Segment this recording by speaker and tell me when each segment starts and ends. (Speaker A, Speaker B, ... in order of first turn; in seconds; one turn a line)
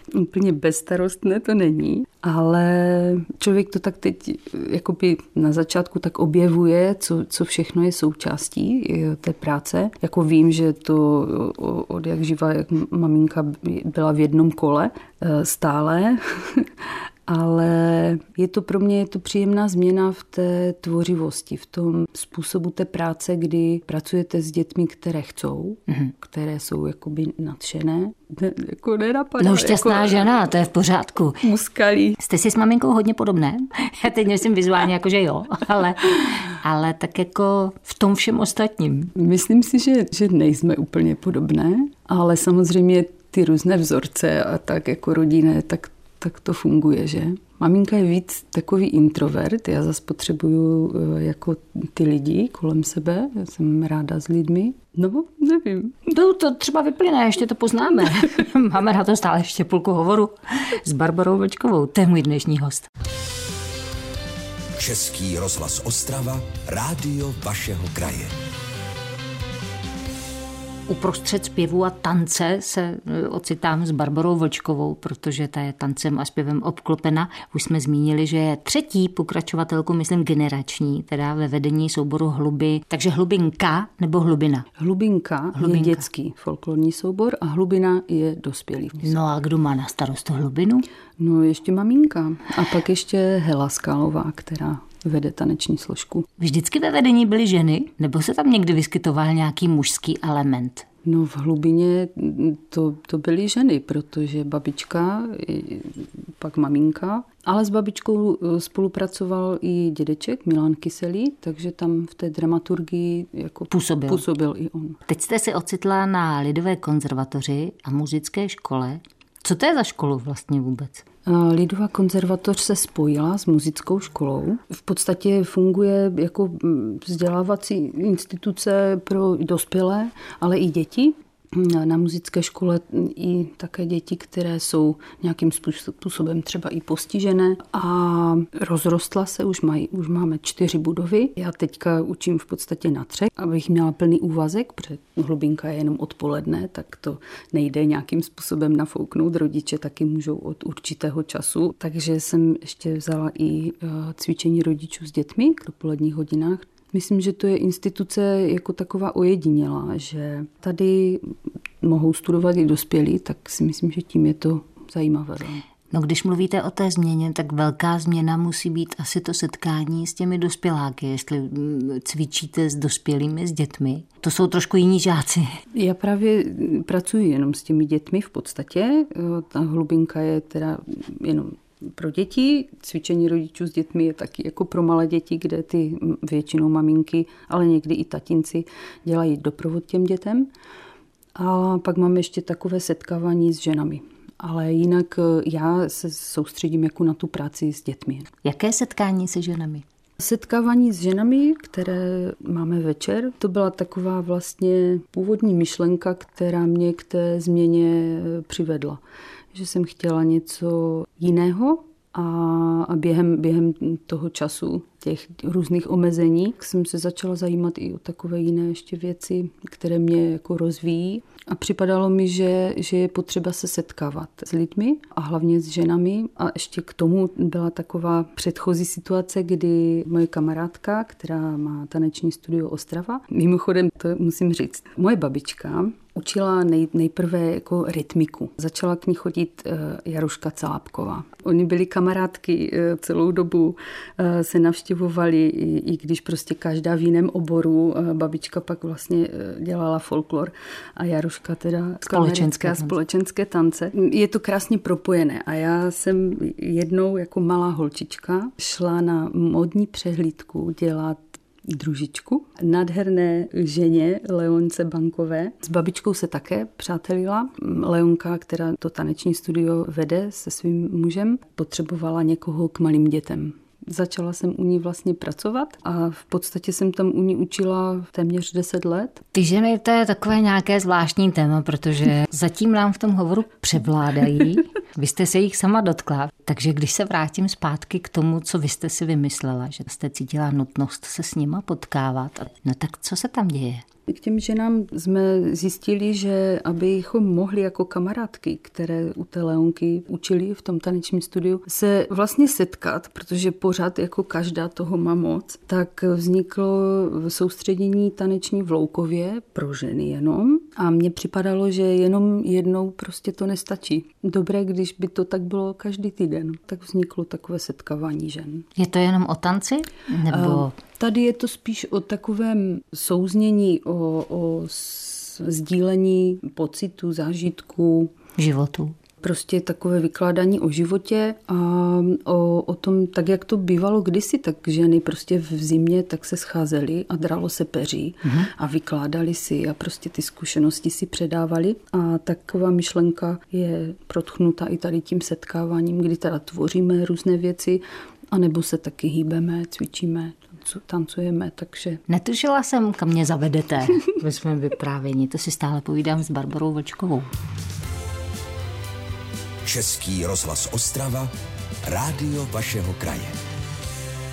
Speaker A: 0.1-30.4
Speaker B: 29.4-31.4
Speaker A: 31.4-32.2
Speaker B: 32.2-39.1
Speaker A: 39.1-56.0
Speaker B: 56.1-62.9
Speaker C: 64.8-68.3
Speaker B: 70.9-84.7
Speaker A: 84.8-89.3
Speaker B: 85.5-86.0
Speaker B: 89.0-90.8
Speaker A: 91.2-96.3
Speaker B: 96.4-100.8
Speaker A: 101.0-115.0
Speaker B: 113.7-114.2
Speaker B: 115.1-121.0
Speaker A: 121.2-165.6
Speaker B: 165.9-175.4
Speaker A: 175.7-190.5
Speaker A: 191.3-198.3
Speaker B: 198.4-199.8
Speaker A: 200.2-209.0
Speaker A: 209.5-279.2
Speaker B: 252.0-252.9
Speaker B: 279.3-293.8
Speaker A: 294.1-318.7
Speaker B: 318.8-320.7
Speaker A: 320.3-328.1
Speaker B: 328.4-328.9
Speaker A: 329.2-352.0
Speaker B: 338.2-338.5
Speaker B: 352.1-357.3
Speaker C: 359.6-361.3
Speaker C: 361.9-363.4